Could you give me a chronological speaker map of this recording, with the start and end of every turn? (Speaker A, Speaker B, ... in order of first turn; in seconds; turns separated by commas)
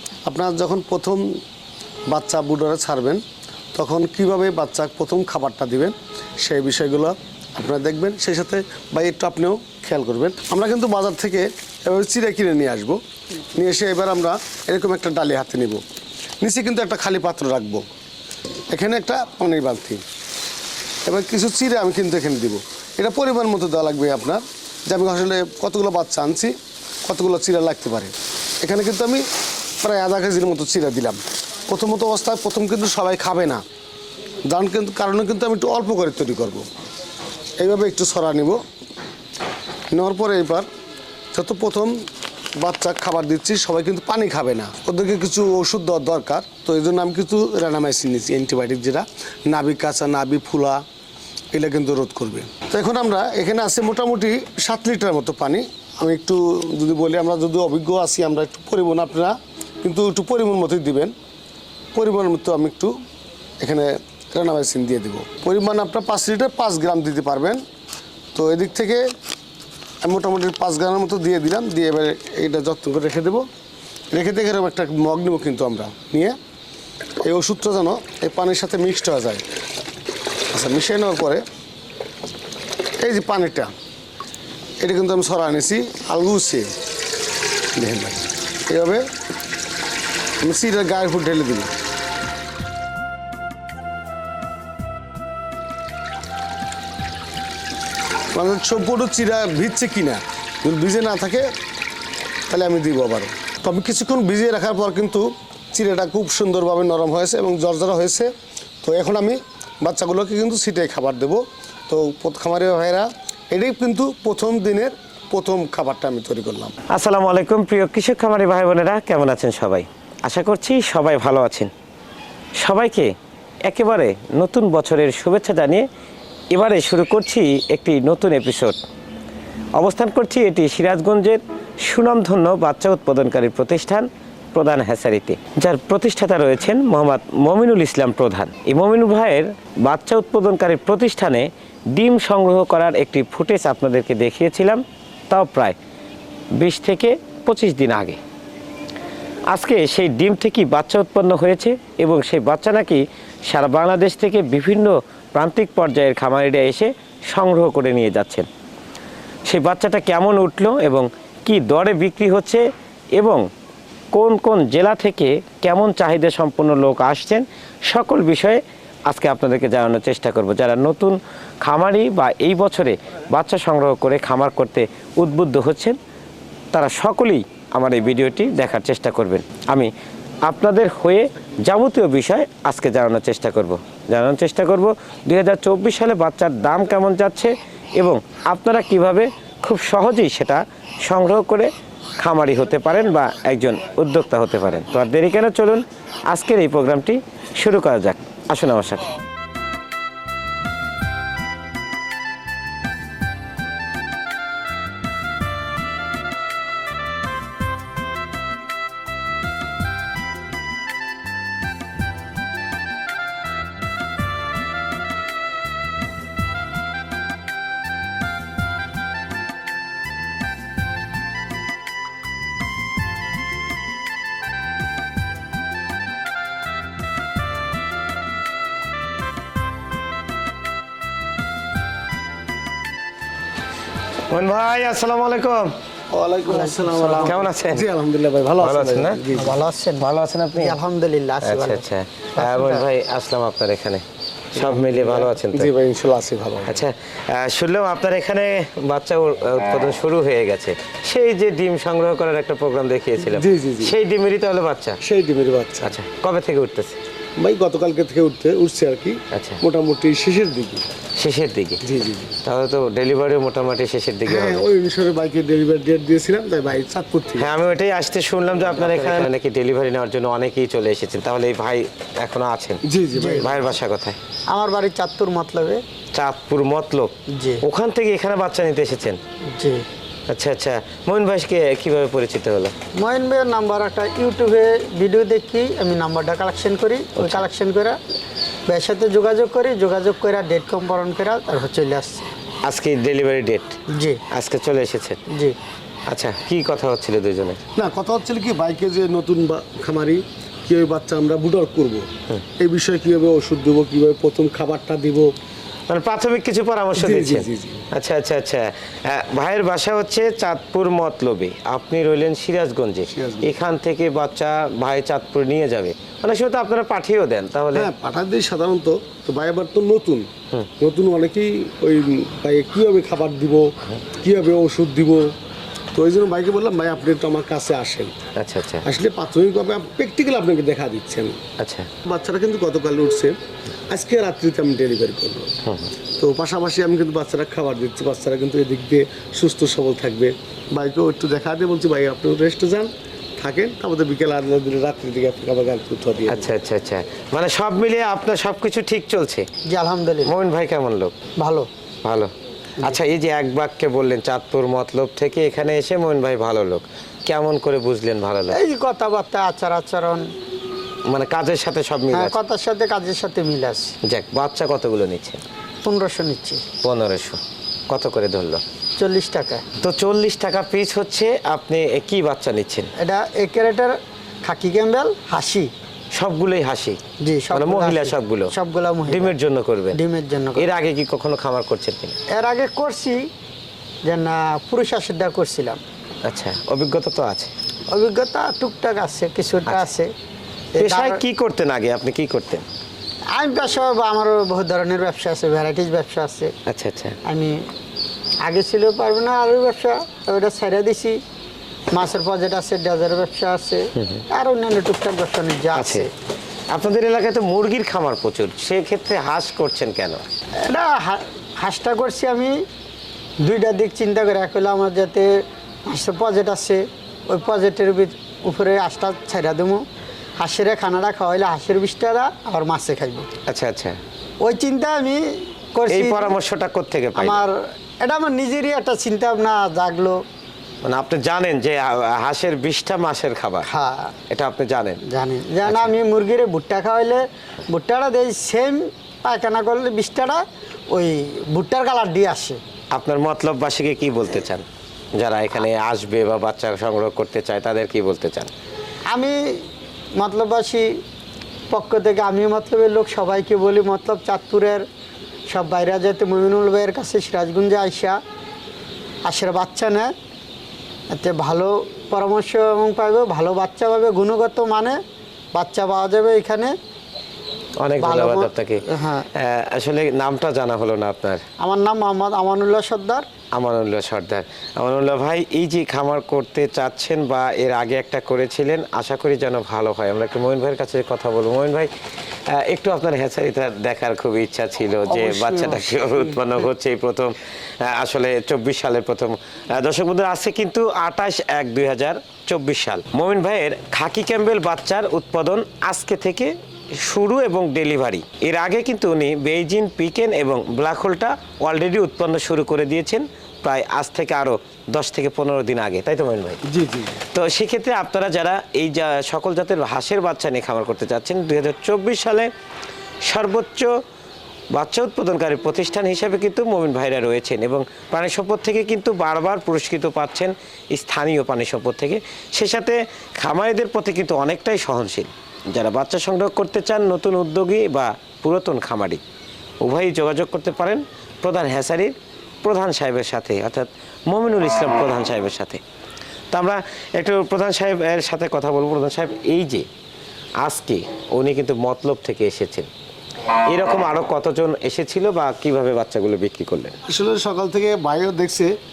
Speaker A: 0.3-1.4, Speaker A: 2.1-3.2, Speaker A: 3.7-15.8, Speaker A: 16.4-17.9, Speaker A: 18.7-20.0, Speaker A: 21.1-29.3, Speaker A: 29.8-33.6, Speaker A: 34.5-36.7, Speaker A: 37.6-38.6, Speaker A: 39.9-40.7, Speaker A: 41.3-42.0, Speaker A: 42.6-50.8, Speaker A: 51.5-61.1, Speaker A: 61.9-63.0, Speaker A: 63.6-67.6, Speaker A: 68.3-69.1, Speaker A: 70.0-73.5, Speaker A: 74.1-76.4, Speaker A: 77.2-79.4, Speaker A: 80.5-81.4, Speaker A: 83.0-83.7, Speaker A: 84.8-86.7, Speaker A: 87.7-89.0, Speaker A: 90.4-91.7, Speaker A: 98.3-101.5, Speaker A: 102.5-108.3, Speaker A: 108.8-116.8, Speaker B: 116.9-121.7, Speaker B: 122.6-123.1, Speaker B: 123.7-125.9, Speaker B: 126.5-128.8, Speaker B: 129.8-145.8, Speaker B: 146.6-148.2, Speaker B: 149.5-158.5, Speaker B: 159.4-162.6, Speaker B: 163.2-163.4, Speaker B: 164.1-175.9, Speaker B: 176.7-179.9, Speaker B: 180.4-199.1, Speaker B: 234.3-235.7, Speaker A: 236.1-239.6, Speaker C: 236.5-237.4, Speaker B: 237.2-237.9, Speaker B: 238.6-239.2, Speaker C: 239.3-241.8, Speaker B: 240.0-240.8, Speaker B: 241.4-244.0, Speaker C: 242.4-242.8, Speaker A: 244.5-246.8, Speaker B: 244.5-245.7, Speaker B: 246.7-255.0, Speaker A: 253.2-253.9, Speaker A: 255.0-255.9, Speaker B: 255.8-257.0, Speaker A: 257.4-260.8, Speaker B: 259.3-259.6, Speaker B: 261.2-261.8, Speaker A: 261.8-262.4, Speaker B: 262.4-264.7, Speaker A: 264.3-267.5, Speaker B: 267.4-272.8, Speaker A: 268.7-269.2, Speaker A: 272.8-273.6, Speaker C: 273.2-273.4, Speaker B: 273.4-274.2, Speaker C: 274.5-275.8, Speaker B: 276.1-279.2, Speaker C: 277.3-277.6, Speaker C: 279.5-279.8, Speaker B: 280.3-282.7, Speaker C: 283.0-288.0, Speaker B: 287.2-287.5, Speaker C: 288.7-292.2, Speaker B: 292.6-293.8, Speaker C: 293.9-294.2, Speaker B: 294.3-295.2, Speaker C: 295.3-295.6, Speaker B: 296.1-297.6, Speaker A: 297.8-305.3, Speaker B: 305.9-317.9, Speaker A: 307.0-307.9, Speaker A: 313.1-313.5, Speaker A: 317.7-325.3, Speaker A: 325.9-328.2, Speaker B: 328.4-328.9, Speaker A: 328.8-331.4, Speaker B: 331.6-331.9, Speaker A: 332.0-333.4, Speaker A: 333.9-335.6, Speaker B: 335.6-335.9, Speaker A: 336.2-346.5, Speaker B: 346.3-349.5, Speaker C: 349.7-350.3, Speaker B: 350.2-351.1, Speaker C: 351.4-351.7, Speaker B: 352.0-352.3, Speaker B: 352.8-358.6, Speaker C: 358.5-360.2, Speaker B: 361.1-362.4, Speaker C: 362.1-363.9, Speaker B: 364.1-365.4, Speaker C: 365.8-366.6, Speaker B: 366.8-368.6, Speaker C: 369.0-369.7, Speaker B: 369.8-372.9, Speaker C: 373.0-375.7, Speaker B: 376.1-377.0, Speaker C: 377.2-379.3, Speaker B: 377.5-378.5, Speaker B: 379.1-380.0, Speaker C: 379.9-380.7, Speaker B: 380.6-382.2, Speaker C: 382.3-383.2, Speaker C: 384.1-385.8, Speaker B: 386.2-387.5, Speaker C: 387.9-390.1, Speaker C: 390.7-391.2, Speaker B: 390.8-392.6, Speaker C: 393.4-396.5, Speaker B: 396.7-397.2, Speaker C: 397.2-397.6, Speaker C: 398.4-401.2, Speaker C: 401.9-406.1, Speaker B: 404.0-404.2, Speaker B: 405.8-406.1, Speaker B: 406.7-410.2, Speaker C: 410.6-412.6, Speaker C: 413.4-415.3, Speaker C: 415.9-419.8, Speaker C: 420.4-423.3, Speaker B: 423.5-424.0, Speaker C: 424.4-426.4, Speaker B: 425.9-427.4, Speaker C: 427.2-430.2, Speaker B: 430.8-433.7, Speaker C: 433.6-434.1, Speaker B: 434.3-435.0, Speaker C: 435.1-442.6, Speaker B: 435.6-435.9, Speaker B: 442.9-444.6, Speaker B: 445.2-448.5, Speaker C: 449.1-449.6, Speaker C: 450.2-450.9, Speaker C: 451.7-454.9, Speaker C: 455.5-458.2, Speaker C: 459.2-460.1, Speaker C: 461.1-465.0, Speaker C: 465.5-466.7, Speaker B: 467.8-471.4, Speaker C: 468.0-469.3, Speaker C: 471.6-473.2, Speaker B: 473.5-481.9, Speaker B: 482.5-506.6, Speaker A: 485.1-486.4, Speaker A: 506.6-507.2, Speaker B: 507.3-512.5, Speaker B: 513.2-513.9, Speaker B: 514.7-529.2, Speaker B: 529.8-535.8, Speaker B: 536.5-539.9, Speaker B: 540.6-542.9, Speaker B: 543.6-547.0, Speaker A: 547.1-548.8